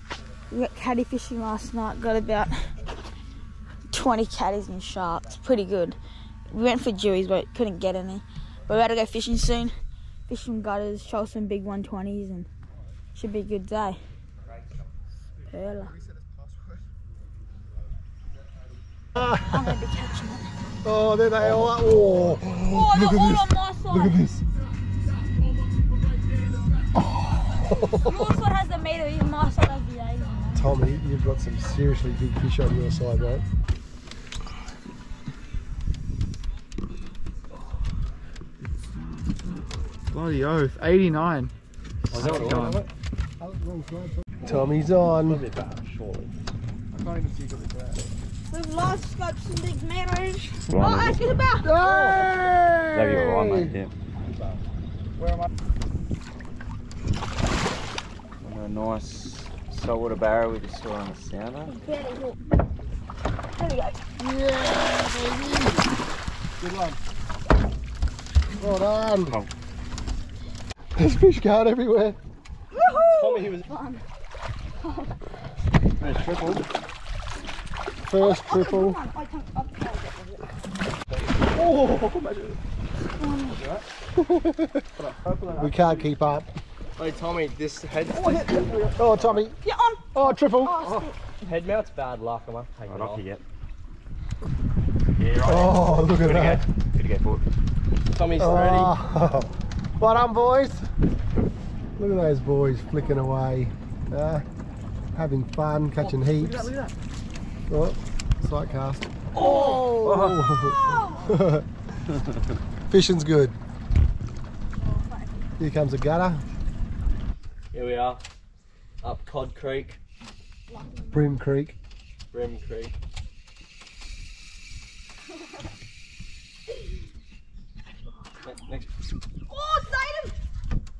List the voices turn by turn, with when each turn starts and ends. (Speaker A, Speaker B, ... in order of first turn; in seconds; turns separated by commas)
Speaker A: 0.5-2.6, Speaker A: 3.9-6.0, Speaker A: 6.5-9.7, Speaker A: 10.3-12.5, Speaker A: 13.1-14.0, Speaker A: 15.5-15.9, Speaker B: 15.8-16.9, Speaker A: 19.2-20.5, Speaker C: 20.8-24.4, Speaker A: 22.6-24.2, Speaker C: 27.6-28.3, Speaker A: 28.0-30.7, Speaker C: 30.5-33.4, Speaker B: 40.1-41.5, Speaker D: 42.1-42.9, Speaker B: 42.1-42.8, Speaker C: 43.4-45.4, Speaker D: 44.5-46.3, Speaker B: 46.9-48.0, Speaker A: 48.5-52.1, Speaker E: 50.7-51.2, Speaker C: 51.6-53.7, Speaker E: 52.9-53.9, Speaker B: 55.2-55.5, Speaker E: 58.4-61.7, Speaker A: 61.6-62.4, Speaker A: 63.5-64.0, Speaker C: 64.2-65.9, Speaker C: 66.6-67.0, Speaker C: 68.6-69.4, Speaker E: 69.2-69.5, Speaker C: 71.0-72.2, Speaker A: 72.7-74.0, Speaker D: 73.1-73.7, Speaker A: 74.8-75.2, Speaker E: 76.0-76.7, Speaker C: 78.1-79.0, Speaker A: 78.2-80.5, Speaker D: 81.1-81.4, Speaker B: 81.5-82.6, Speaker A: 83.2-83.6, Speaker C: 84.2-84.8, Speaker C: 85.6-86.5, Speaker D: 87.0-88.7, Speaker B: 88.1-89.4, Speaker C: 89.0-89.6, Speaker A: 89.6-91.2, Speaker C: 90.1-90.8, Speaker D: 91.4-93.2, Speaker E: 92.8-93.4, Speaker E: 95.2-97.5, Speaker C: 95.4-96.6, Speaker D: 98.1-98.9, Speaker C: 98.4-100.8, Speaker C: 102.0-104.4, Speaker C: 105.1-106.7, Speaker B: 106.0-106.9, Speaker C: 107.7-111.6, Speaker D: 109.3-109.8, Speaker A: 109.4-110.0, Speaker E: 110.0-110.4, Speaker A: 110.8-111.3, Speaker C: 112.9-113.6, Speaker A: 114.8-115.5, Speaker C: 115.6-116.4, Speaker D: 117.7-118.2, Speaker D: 119.0-120.0, Speaker A: 120.7-121.3, Speaker C: 121.1-121.8, Speaker D: 122.3-122.9, Speaker D: 128.4-128.9, Speaker A: 129.5-130.3